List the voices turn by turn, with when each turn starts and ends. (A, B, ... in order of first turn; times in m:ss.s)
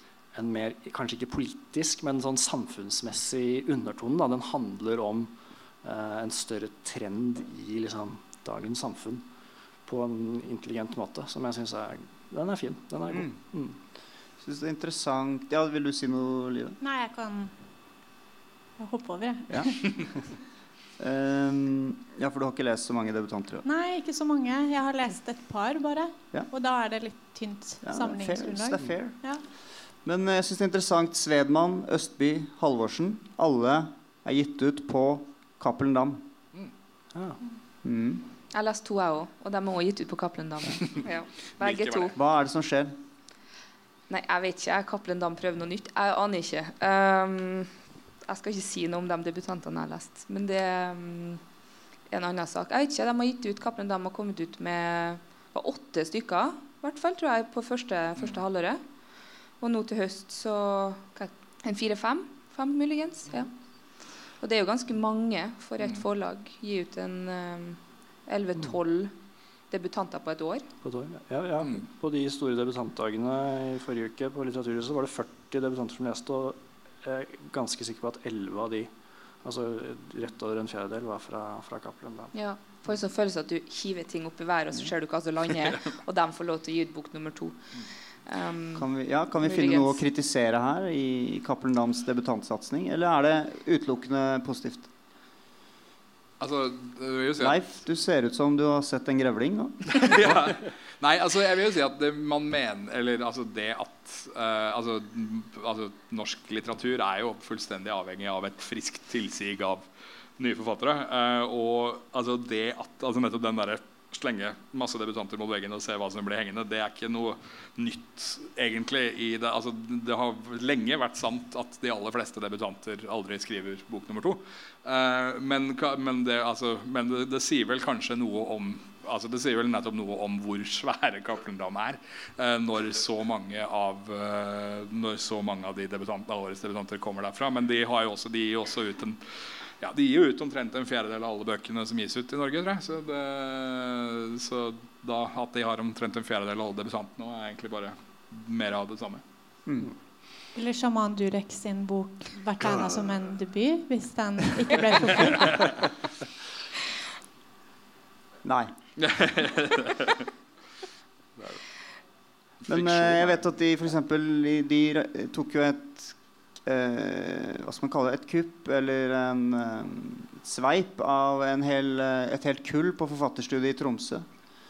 0:00.3-0:09.2 A
0:09.9-0:13.8 A
0:13.1-0:13.4 B
0:14.4-0:16.8 B
0:16.8-0:17.6 C
0:18.8-0:20.1 C
0:19.5-0:19.8 B
0:21.0-0:23.7 B
0:23.7-0:29.4 C
0:27.8-0:29.2 B
0:30.0-0:36.3 B
0:37.8-0:38.2 B
0:38.5-0:42.2 D
0:41.6-0:42.2 E
0:42.2-0:43.0 B
0:44.1-0:47.7 D
0:48.3-0:51.4 D
0:52.1-0:58.8 D
0:59.6-1:03.5 D
1:04.4-1:09.1 D
1:09.7-1:10.7 D
1:10.8-1:18.9 A
1:19.4-1:22.3 A
1:22.3-1:27.6 D
1:28.3-1:28.9 D
1:28.8-1:34.9 B
1:29.4-1:30.0 D
1:36.4-1:37.6 E
1:37.4-1:40.1 B
1:39.9-1:49.9 E
1:50.4-2:19.2 E
2:19.8-2:29.2 E
2:29.7-2:29.9 B
2:30.6-2:35.8 C
2:38.4-2:38.7 B
2:39.0-2:40.3 E
2:42.6-2:43.4 E
2:42.7-2:54.2 B